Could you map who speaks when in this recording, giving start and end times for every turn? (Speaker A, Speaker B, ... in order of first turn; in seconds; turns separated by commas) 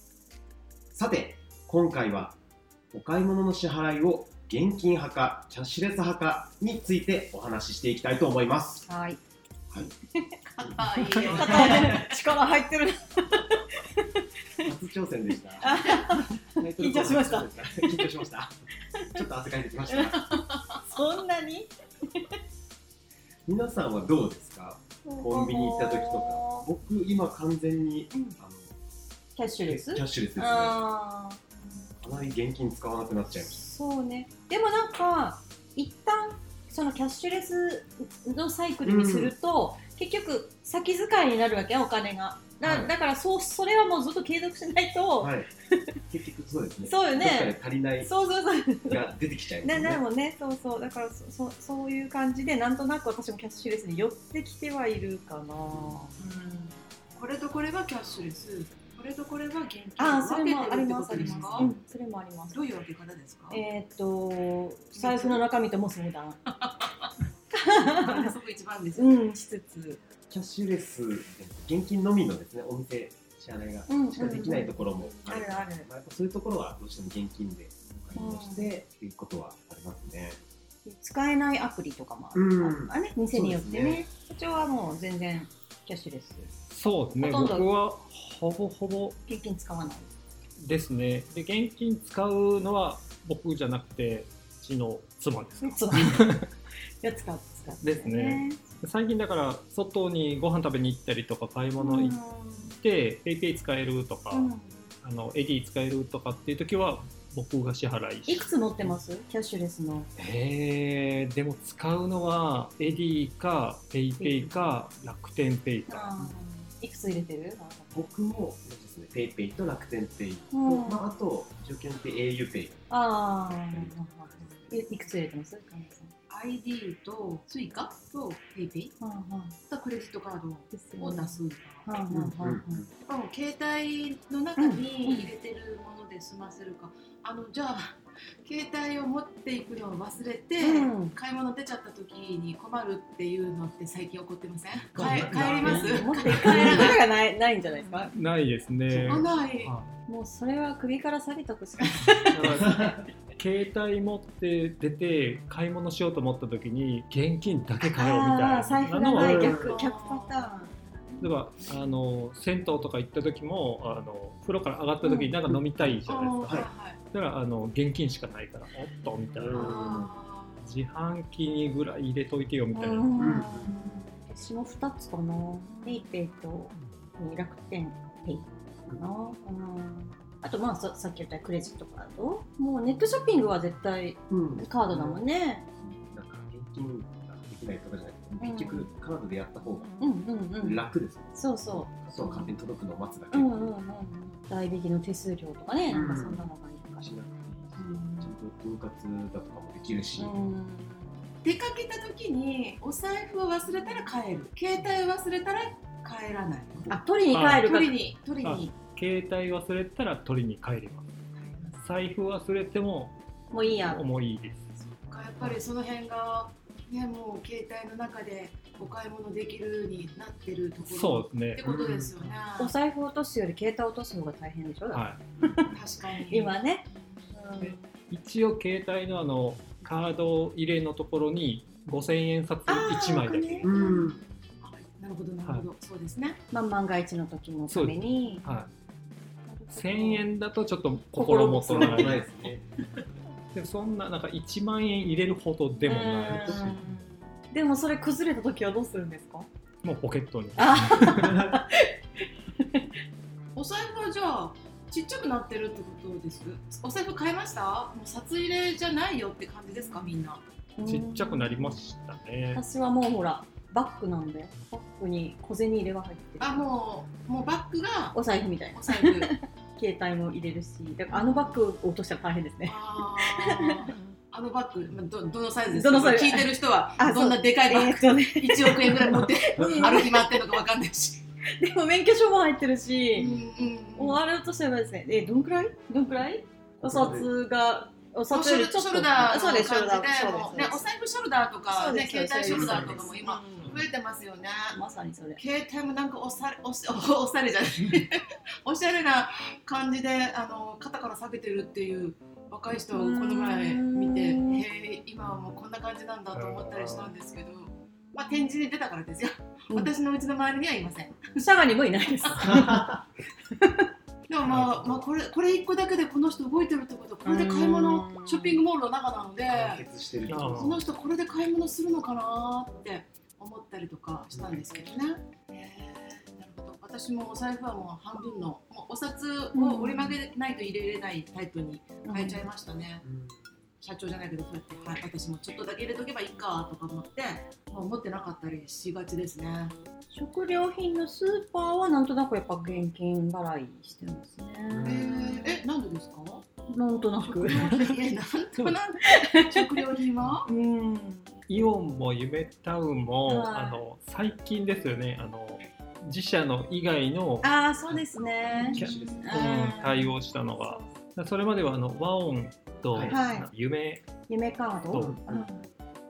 Speaker A: 0.9-2.4, Speaker A: 2.9-8.9, Speaker B: 8.9-9.2, Speaker C: 10.5-12.1, Speaker A: 10.6-12.1, Speaker B: 11.3-14.6, Speaker A: 14.6-20.4, Speaker B: 15.6-18.1, Speaker B: 19.0-19.2, Speaker B: 19.9-22.3, Speaker C: 20.5-20.8, Speaker A: 23.5-28.8, Speaker B: 25.1-26.7, Speaker B: 28.1-28.4, Speaker B: 29.4-31.4, Speaker A: 29.6-30.8, Speaker A: 32.0-33.6, Speaker B: 33.4-45.8, Speaker A: 38.8-39.3, Speaker D: 42.6-42.9, Speaker A: 45.2-45.5, Speaker A: 46.1-48.1, Speaker B: 46.9-49.1, Speaker A: 48.9-50.0, Speaker B: 49.6-56.8, Speaker A: 55.7-56.0, Speaker C: 57.1-61.7, Speaker B: 60.0-62.6, Speaker A: 61.1-61.8, Speaker C: 62.5-63.6, Speaker B: 63.5-66.4, Speaker C: 65.0-65.4, Speaker C: 66.5-67.1, Speaker B: 67.5-68.3, Speaker C: 67.8-69.2, Speaker B: 69.0-70.0, Speaker A: 70.3-80.4, Speaker B: 73.9-75.9, Speaker B: 78.2-78.7, Speaker B: 80.8-86.5, Speaker A: 82.3-84.1, Speaker D: 86.7-89.2, Speaker B: 87.2-87.7, Speaker B: 89.3-90.1, Speaker D: 90.6-96.5, Speaker B: 95.6-96.4, Speaker B: 97.0-98.6, Speaker D: 97.8-102.2, Speaker B: 101.8-102.8, Speaker D: 102.7-104.5, Speaker B: 104.3-104.8, Speaker D: 105.0-108.5, Speaker B: 108.3-110.1, Speaker D: 110.2-116.2, Speaker B: 114.2-114.7, Speaker B: 115.9-118.0, Speaker A: 117.9-122.9, Speaker B: 120.5-121.1, Speaker B: 122.9-126.1, Speaker A: 123.7-124.8, Speaker C: 126.3-128.9, Speaker B: 129.0-129.6, Speaker C: 129.7-131.9, Speaker B: 130.7-132.8, Speaker A: 132.1-132.9, Speaker C: 133.0-147.0, Speaker B: 134.6-135.3, Speaker B: 140.6-141.2, Speaker D: 144.9-146.8, Speaker B: 145.6-148.2, Speaker D: 148.2-149.9, Speaker C: 148.9-149.7, Speaker B: 150.1-152.9, Speaker D: 152.3-159.5, Speaker A: 152.6-153.1, Speaker B: 157.9-161.2, Speaker A: 159.1-159.8, Speaker C: 159.4-160.7, Speaker D: 161.2-166.6, Speaker B: 165.0-165.3, Speaker A: 165.5-165.9, Speaker C: 166.1-167.0, Speaker D: 167.1-169.8, Speaker A: 169.3-170.1, Speaker C: 169.5-170.7, Speaker D: 170.6-173.1, Speaker B: 172.7-185.7, Speaker A: 173.2-173.8, Speaker A: 184.3-185.2, Speaker A: 185.8-189.9, Speaker B: 188.3-188.9, Speaker B: 190.0-190.8, Speaker A: 190.6-193.7, Speaker B: 191.3-192.6, Speaker B: 193.3-197.1, Speaker A: 195.9-196.5, Speaker A: 197.0-200.3, Speaker B: 197.8-198.3, Speaker B: 200.2-201.2, Speaker C: 201.4-206.9, Speaker A: 206.8-207.0, Speaker B: 206.9-207.9, Speaker D: 207.3-207.7, Speaker C: 207.4-208.7, Speaker D: 208.4-211.1, Speaker C: 211.3-211.8, Speaker D: 211.8-214.7, Speaker B: 213.5-214.0, Speaker C: 214.8-222.7, Speaker D: 220.8-221.6, Speaker A: 221.6-222.3, Speaker B: 222.6-225.7, Speaker D: 224.9-225.2, Speaker A: 225.4-225.7, Speaker C: 225.7-226.6, Speaker B: 226.3-227.9, Speaker D: 227.6-233.7, Speaker B: 232.7-233.7, Speaker A: 233.6-234.2, Speaker C: 233.7-236.4, Speaker B: 236.5-238.5, Speaker D: 237.7-238.7, Speaker B: 239.5-240.3, Speaker D: 239.7-242.2, Speaker B: 241.1-242.2, Speaker A: 241.7-242.7, Speaker D: 243.5-246.8, Speaker B: 245.8-249.5, Speaker A: 246.4-246.7, Speaker D: 249.8-251.4, Speaker B: 250.6-252.9, Speaker A: 251.1-251.6, Speaker C: 253.6-260.4, Speaker B: 260.8-261.8, Speaker D: 260.8-262.6, Speaker B: 262.5-266.7, Speaker C: 266.4-268.2, Speaker B: 268.1-273.9, Speaker C: 268.7-269.3, Speaker C: 271.1-271.6, Speaker C: 272.7-281.2, Speaker B: 275.7-280.4, Speaker A: 279.6-279.9, Speaker B: 281.6-283.3, Speaker C: 283.2-284.2, Speaker B: 284.0-290.8, Speaker A: 286.8-287.3, Speaker C: 288.3-294.8, Speaker B: 291.7-293.7, Speaker A: 292.5-293.1, Speaker B: 294.7-295.4, Speaker C: 295.4-311.4, Speaker B: 302.9-304.6, Speaker D: 306.3-307.1, Speaker B: 311.4-313.0, Speaker C: 312.2-312.5, Speaker A: 312.4-313.0, Speaker B: 313.6-313.9, Speaker C: 314.3-319.8, Speaker A: 314.5-315.0, Speaker B: 317.2-318.6, Speaker A: 319.5-320.8, Speaker D: 320.3-320.8, Speaker C: 320.4-333.0, Speaker A: 324.3-324.6, Speaker B: 329.6-330.2, Speaker B: 332.0-332.4, Speaker A: 333.0-333.5, Speaker C: 333.8-339.8, Speaker B: 340.1-345.6, Speaker A: 344.7-345.4, Speaker C: 344.8-346.5, Speaker B: 346.7-347.9, Speaker C: 347.2-350.5, Speaker B: 348.6-349.7, Speaker B: 350.5-351.4, Speaker D: 351.5-357.5, Speaker B: 353.3-353.8, Speaker B: 357.4-359.8, Speaker A: 357.9-359.5, Speaker C: 358.6-360.1, Speaker D: 358.8-364.0, Speaker B: 360.6-360.9, Speaker A: 362.9-363.2, Speaker B: 363.1-363.5, Speaker B: 364.3-365.6, Speaker D: 364.9-365.2, Speaker A: 365.0-365.5